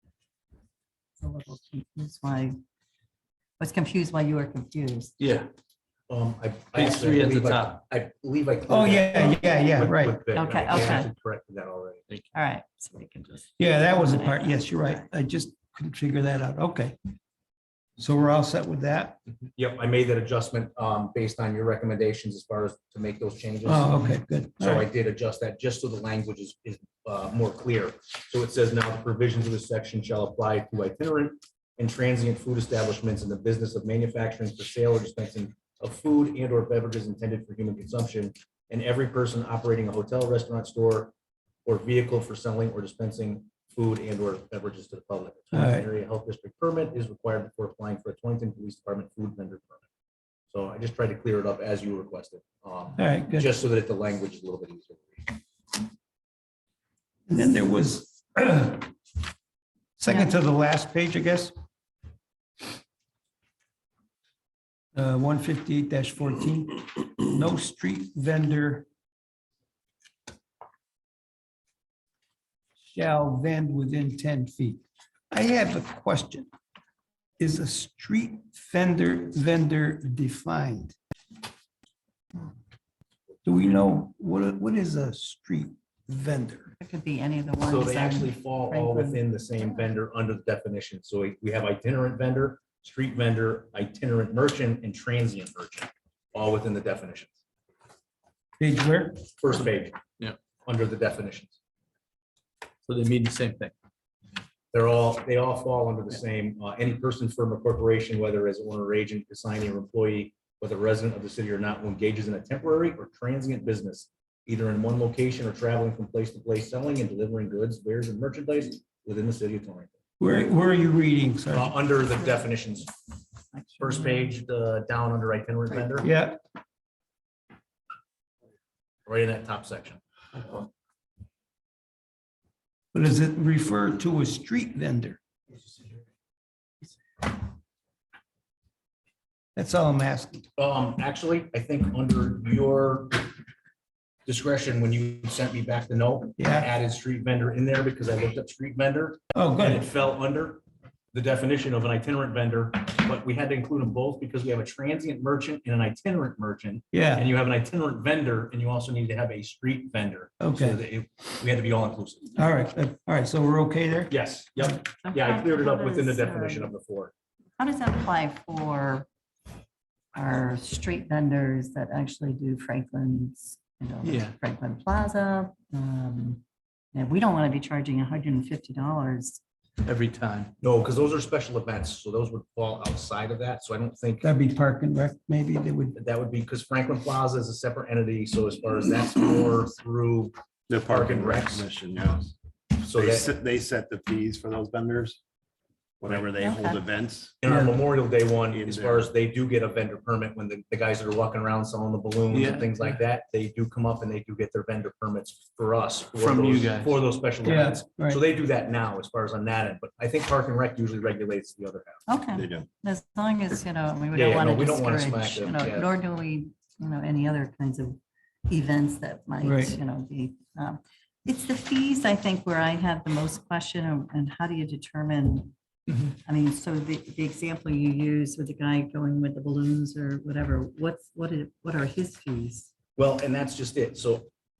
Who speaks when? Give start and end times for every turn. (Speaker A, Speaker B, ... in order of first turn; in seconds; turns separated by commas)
Speaker A: 1.2-2.6, Speaker A: 3.6-5.2, Speaker B: 5.2-5.5, Speaker C: 6.1-12.0, Speaker B: 6.7-7.8, Speaker D: 8.7-10.2, Speaker A: 10.3-11.1, Speaker A: 12.3-15.1, Speaker D: 13.6-17.0, Speaker D: 18.0-19.2, Speaker C: 19.6-23.9, Speaker D: 23.6-24.9, Speaker C: 24.6-41.1, Speaker C: 41.7-49.8, Speaker D: 45.5-45.9, Speaker C: 50.5-55.4, Speaker D: 53.0-53.5, Speaker D: 57.3-58.9, Speaker D: 60.0-61.5, Speaker D: 65.0-68.8, Speaker D: 72.8-76.5, Speaker D: 77.4-81.0, Speaker D: 83.5-86.7, Speaker A: 86.8-89.9, Speaker C: 87.6-97.4, Speaker D: 98.6-99.2, Speaker C: 99.4-100.0, Speaker C: 100.7-101.6, Speaker B: 102.8-103.7, Speaker C: 104.7-119.9, Speaker D: 120.2-121.8, Speaker C: 121.5-122.9, Speaker A: 123.5-124.3, Speaker C: 123.8-126.1, Speaker D: 126.0-126.4, Speaker C: 129.1-130.0, Speaker D: 132.9-135.2, Speaker D: 139.6-140.5, Speaker C: 140.6-143.3, Speaker C: 144.3-162.3, Speaker D: 146.4-146.7, Speaker D: 149.3-149.8, Speaker D: 156.9-157.3, Speaker D: 160.4-160.8, Speaker D: 162.4-164.8, Speaker C: 164.1-167.1, Speaker A: 165.0-166.8, Speaker A: 167.6-169.1, Speaker A: 170.2-176.4, Speaker B: 174.0-174.4, Speaker A: 176.9-179.4, Speaker B: 179.8-180.5, Speaker C: 180.6-184.3, Speaker D: 184.2-185.9, Speaker C: 185.9-191.7, Speaker E: 190.7-192.3, Speaker C: 192.8-193.3, Speaker E: 192.8-195.2, Speaker E: 196.0-197.4, Speaker A: 196.4-196.8, Speaker C: 197.4-212.0, Speaker D: 197.5-197.7, Speaker E: 198.5-199.1, Speaker B: 202.3-203.0, Speaker B: 206.2-207.0, Speaker D: 207.4-208.2, Speaker A: 212.1-225.5, Speaker E: 212.3-212.7, Speaker C: 214.1-215.9, Speaker D: 219.4-219.8, Speaker A: 226.2-232.7, Speaker C: 233.0-234.3